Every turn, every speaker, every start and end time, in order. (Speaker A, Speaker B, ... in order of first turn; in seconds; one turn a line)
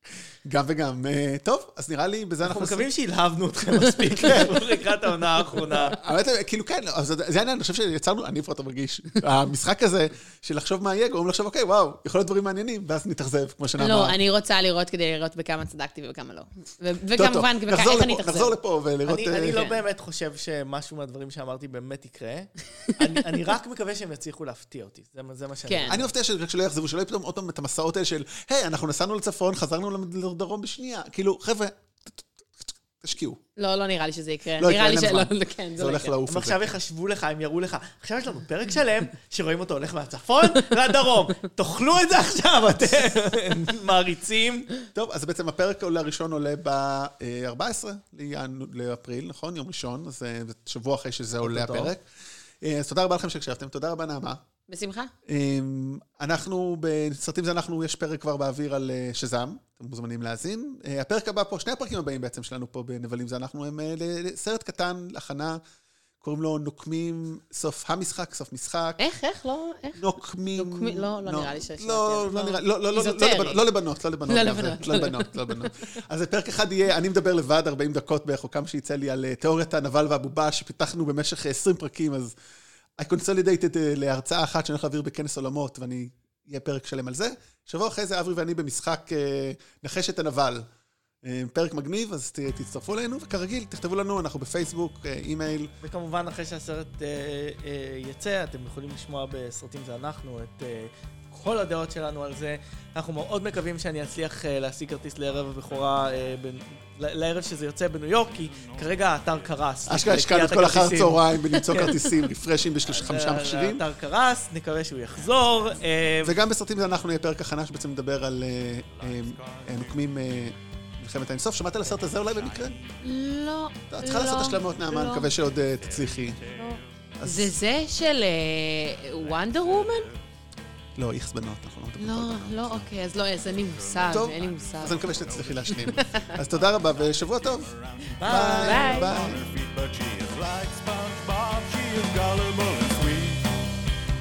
Speaker A: 0.4-2.9
Speaker B: 2.4-6.0
Speaker A: 4.2-4.5
Speaker A: 5.8-14.2
Speaker C: 13.8-18.5
Speaker A: 17.1-19.6
Speaker B: 19.1-26.1
Speaker C: 19.5-19.8
Speaker C: 25.7-26.0
Speaker A: 25.9-33.4
Speaker C: 33.6-36.2
Speaker A: 34.6-36.8
Speaker B: 36.3-44.7
Speaker A: 44.9-52.0
Speaker B: 51.4-51.9
Speaker A: 52.6-54.4
Speaker C: 54.7-55.1
Speaker A: 55.2-65.6
Speaker A: 66.2-69.0
Speaker C: 69.0-70.0
Speaker A: 70.0-82.3
Speaker C: 70.5-73.6
Speaker C: 74.3-75.7
Speaker A: 83.0-90.6
Speaker A: 91.2-95.7
Speaker B: 95.8-112.0
Speaker D: 108.1-110.1
Speaker A: 109.9-113.8
Speaker C: 111.5-112.0
Speaker B: 112.8-116.4
Speaker D: 115.1-116.2
Speaker A: 116.2-122.7
Speaker D: 118.8-120.1
Speaker D: 121.8-123.1
Speaker C: 123.0-125.3
Speaker A: 123.9-126.4
Speaker D: 125.5-127.1
Speaker C: 126.5-130.1
Speaker A: 127.2-127.5
Speaker D: 129.0-130.2
Speaker A: 131.0-132.8
Speaker C: 132.0-135.1
Speaker D: 133.3-143.8
Speaker A: 134.1-137.7
Speaker C: 135.7-136.4
Speaker B: 138.2-139.0
Speaker A: 138.2-139.4
Speaker C: 138.3-139.1